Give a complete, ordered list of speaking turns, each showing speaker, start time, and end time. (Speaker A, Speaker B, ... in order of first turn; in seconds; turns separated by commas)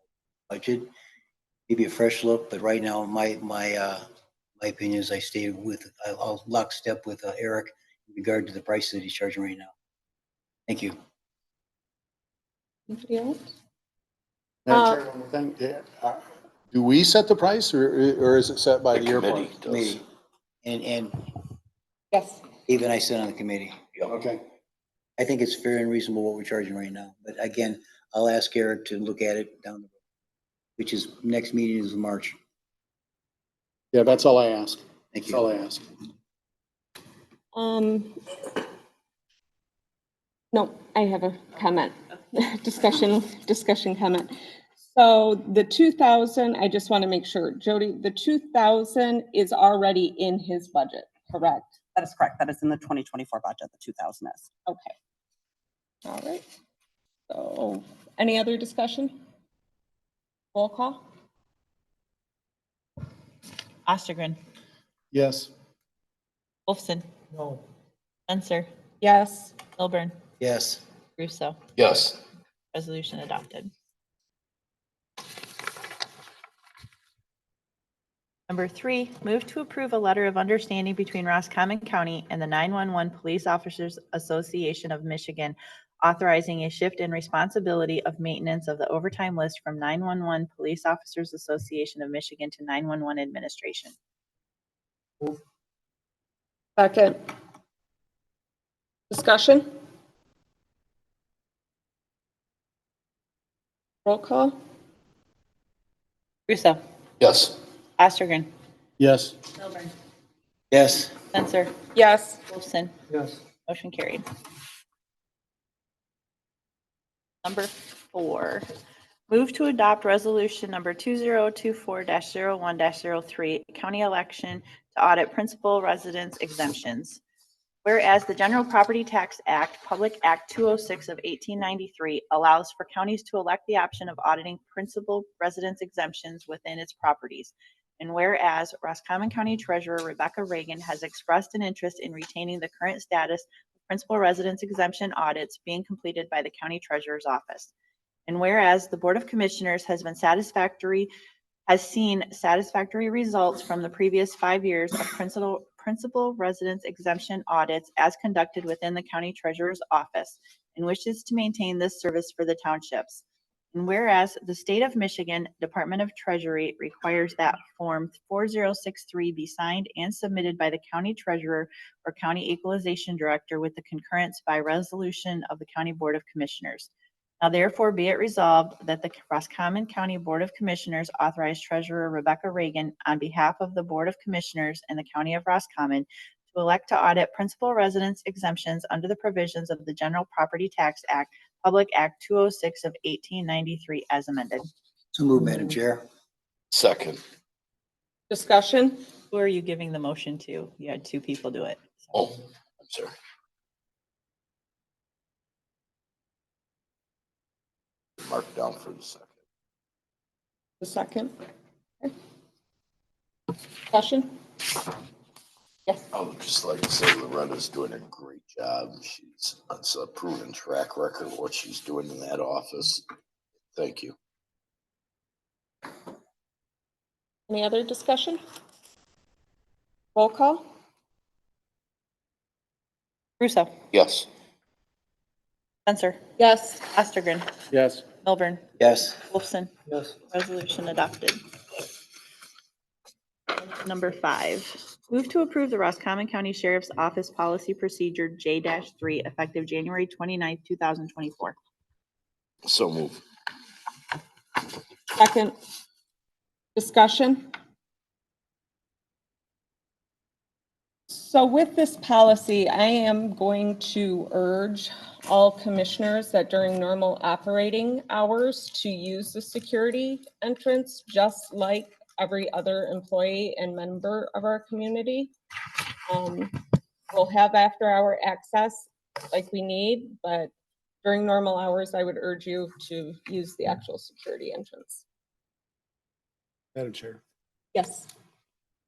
Speaker A: 0.5-0.9, Speaker A: 1.7-4.0, Speaker A: 4.6-9.7, Speaker A: 10.7-10.9, Speaker B: 12.9-13.4, Speaker C: 14.7-19.5, Speaker B: 14.7-15.0, Speaker D: 18.9-20.0, Speaker A: 19.4-20.0, Speaker A: 20.6-21.2, Speaker B: 22.1-22.4, Speaker A: 22.6-23.8, Speaker C: 24.1-24.4, Speaker A: 25.2-29.9, Speaker A: 30.8-32.4, Speaker C: 33.9-35.8, Speaker A: 35.1-35.5, Speaker B: 37.5-38.2, Speaker B: 40.5-44.3, Speaker B: 44.9-51.8, Speaker E: 51.9-54.5, Speaker B: 54.6-54.9, Speaker B: 56.0-56.4, Speaker B: 57.3-59.1, Speaker B: 60.5-61.0, Speaker F: 63.9-64.4, Speaker C: 65.1-65.5, Speaker F: 66.7-67.0, Speaker F: 68.3-68.7, Speaker B: 69.0-69.6, Speaker F: 69.7-70.1, Speaker A: 70.4-70.8, Speaker F: 71.2-71.6, Speaker D: 71.8-72.2, Speaker F: 72.7-73.7, Speaker F: 78.5-93.9, Speaker B: 96.8-97.2, Speaker B: 99.1-99.7, Speaker B: 104.0-104.5, Speaker F: 106.5-106.8, Speaker D: 107.2-107.6, Speaker F: 108.0-108.5, Speaker C: 109.0-109.3, Speaker F: 109.6-109.9, Speaker A: 110.7-111.1, Speaker F: 111.3-111.7, Speaker B: 111.9-112.4, Speaker F: 112.5-112.9, Speaker F: 113.7-114.2, Speaker F: 117.4-118.7, Speaker F: 119.3-127.2, Speaker F: 127.8-147.7, Speaker F: 148.3-151.1, Speaker F: 151.7-176.9, Speaker F: 177.4-194.7, Speaker A: 195.1-196.0, Speaker D: 196.7-197.2, Speaker B: 198.3-199.0, Speaker F: 199.3-202.0, Speaker D: 202.1-203.1, Speaker D: 208.2-209.3, Speaker B: 210.8-211.3, Speaker B: 213.9-214.3, Speaker D: 216.1-223.0, Speaker D: 223.7-224.1, Speaker B: 227.5-228.4, Speaker B: 230.1-230.7, Speaker F: 233.4-233.7, Speaker D: 233.9-234.3, Speaker F: 235.8-236.2, Speaker B: 236.4-236.9, Speaker F: 236.9-237.5, Speaker C: 237.7-238.0, Speaker F: 238.2-238.6, Speaker A: 238.8-239.2, Speaker F: 239.2-239.7, Speaker F: 240.2-241.4, Speaker F: 243.5-251.6, Speaker D: 252.6-253.2, Speaker B: 255.2-255.5, Speaker B: 256.8-257.5, Speaker B: 261.1-275.3, Speaker B: 276.1-280.5, Speaker B: 281.0-285.0, Speaker C: 286.7-287.2, Speaker B: 287.7-288.1